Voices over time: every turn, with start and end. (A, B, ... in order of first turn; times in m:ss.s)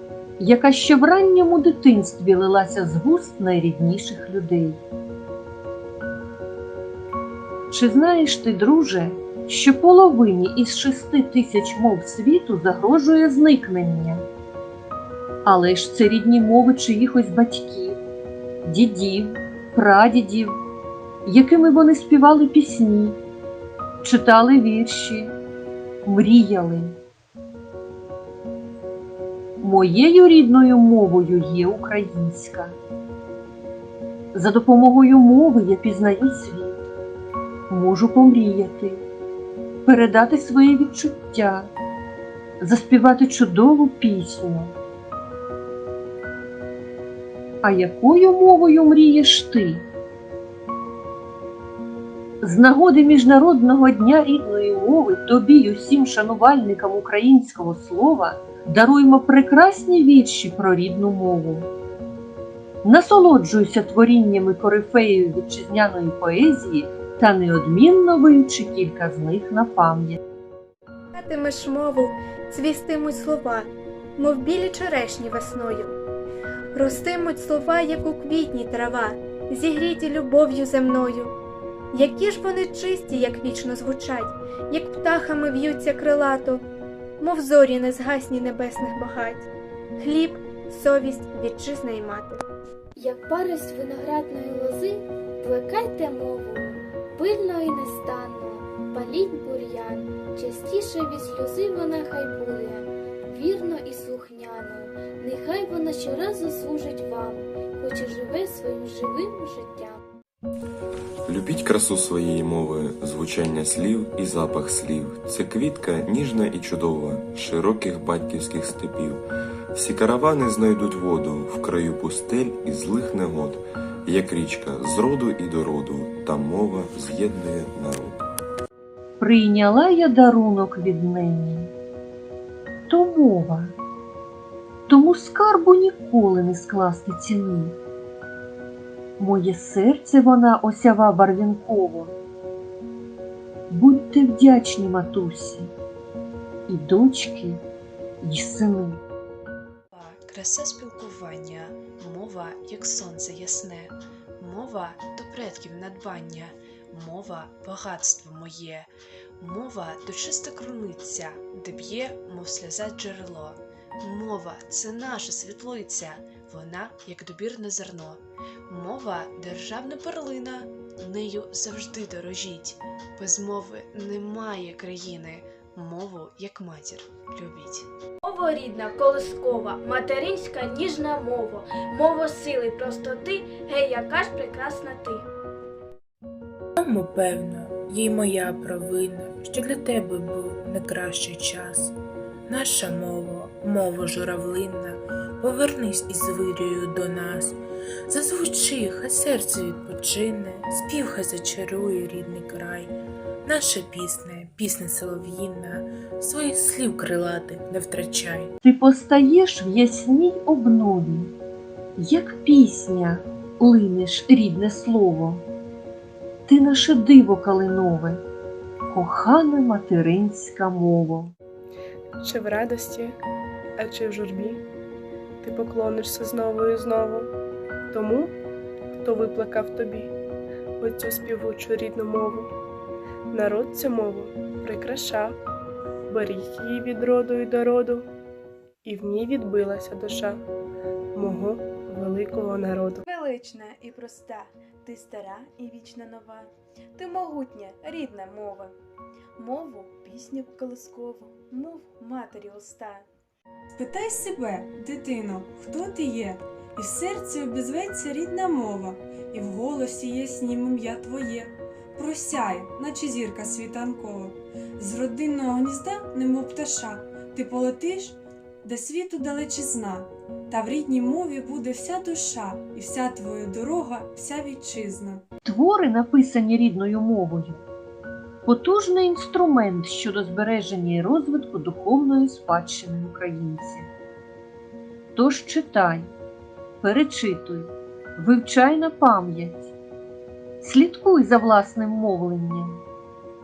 0:00.4-0:04.8 A
0:07.7-0:14.2 A
0:15.4-0:18.0 A
0:18.6-0:20.6 A
0:21.2-0:23.2 A
0:24.0-0:25.3 A
0:26.0-0:26.9 A
0:29.6-0:32.8 A
0:34.3-0:36.8 A
0:37.7-0:39.0 A
0:39.8-0:41.7 A
0:42.6-0:44.7 A
0:47.6-0:49.8 A
0:52.4-1:01.7 A
1:02.8-1:10.2 A
1:11.1-1:15.9 B
1:16.7-1:21.3 B
1:21.9-1:26.6 B
1:27.2-1:29.5 B
1:30.0-1:32.4 B
1:33.0-1:50.0 C
1:51.2-1:59.2 D
1:59.7-2:08.2 D
2:09.2-2:11.7 A
2:12.9-2:13.7 A
2:14.9-2:17.7 A
2:19.2-2:22.1 A
2:23.7-2:25.7 A
2:26.7-2:27.6 A
2:28.2-2:29.0 A
2:29.9-2:57.9 E
2:58.2-3:05.3 F
3:06.8-3:11.9 G
3:12.5-3:22.9 G
3:23.4-3:28.5 G
3:28.6-3:31.3 A
3:32.0-3:35.4 A
3:36.5-3:38.2 A
3:38.9-3:41.3 A
3:42.2-3:43.2 H
3:43.8-3:44.6 H
3:45.4-3:47.3 H
3:47.9-3:48.3 H
3:49.0-3:50.1 H
3:50.8-3:52.5 H
3:53.3-3:55.3 H
3:56.1-3:58.0 H
3:58.8-4:00.4 H
4:01.1-4:03.0 H
4:03.0-4:08.8 I
4:09.4-4:13.1 I
4:13.8-4:35.2 J
4:35.4-4:37.6 A
4:38.4-4:43.9 A
4:45.2-4:46.1 A
4:46.8-4:49.7 A
4:50.6-4:52.8 A